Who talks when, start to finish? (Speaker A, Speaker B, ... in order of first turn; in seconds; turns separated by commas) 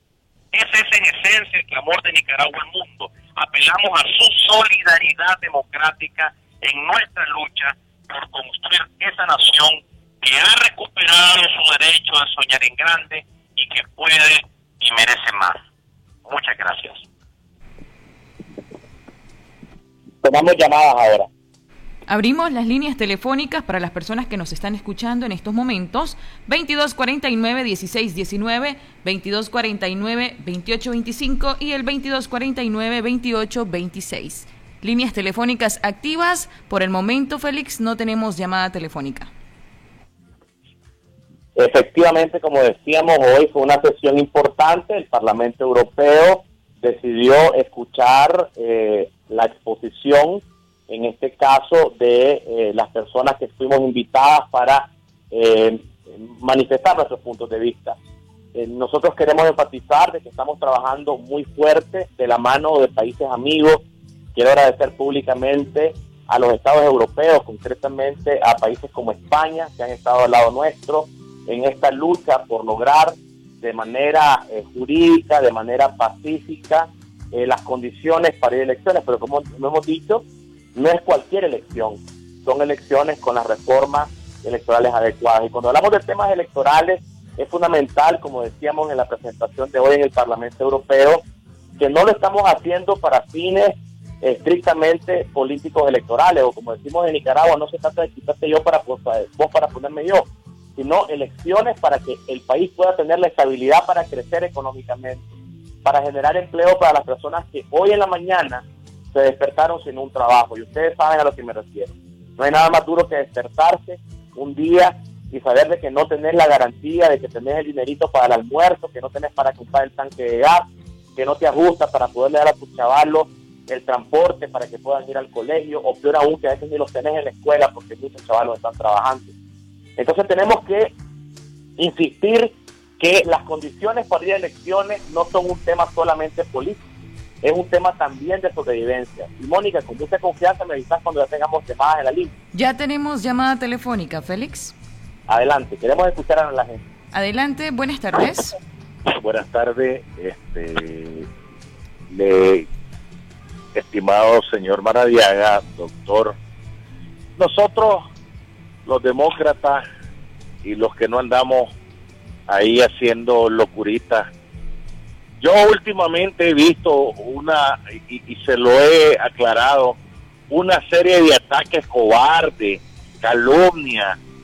Speaker A: 0.5-15.6, Speaker A: 16.2-17.0, Speaker B: 20.2-21.3, Speaker C: 22.1-39.3, Speaker B: 41.5-58.0, Speaker B: 58.5-63.8, Speaker B: 64.3-80.2, Speaker B: 80.7-91.2, Speaker B: 91.8-105.2, Speaker B: 105.8-120.6, Speaker B: 121.2-129.3, Speaker B: 130.0-130.9, Speaker B: 131.8-136.8, Speaker B: 137.4-142.3, Speaker C: 142.5-144.7, Speaker B: 145.3-146.8, Speaker C: 147.1-148.5, Speaker D: 149.1-151.2, Speaker D: 152.1-152.7, Speaker D: 153.7-156.3, Speaker D: 157.4-158.0, Speaker D: 158.8-159.8, Speaker D: 160.6-161.7, Speaker D: 162.5-164.3, Speaker D: 165.4-170.0, Speaker D: 170.5-174.2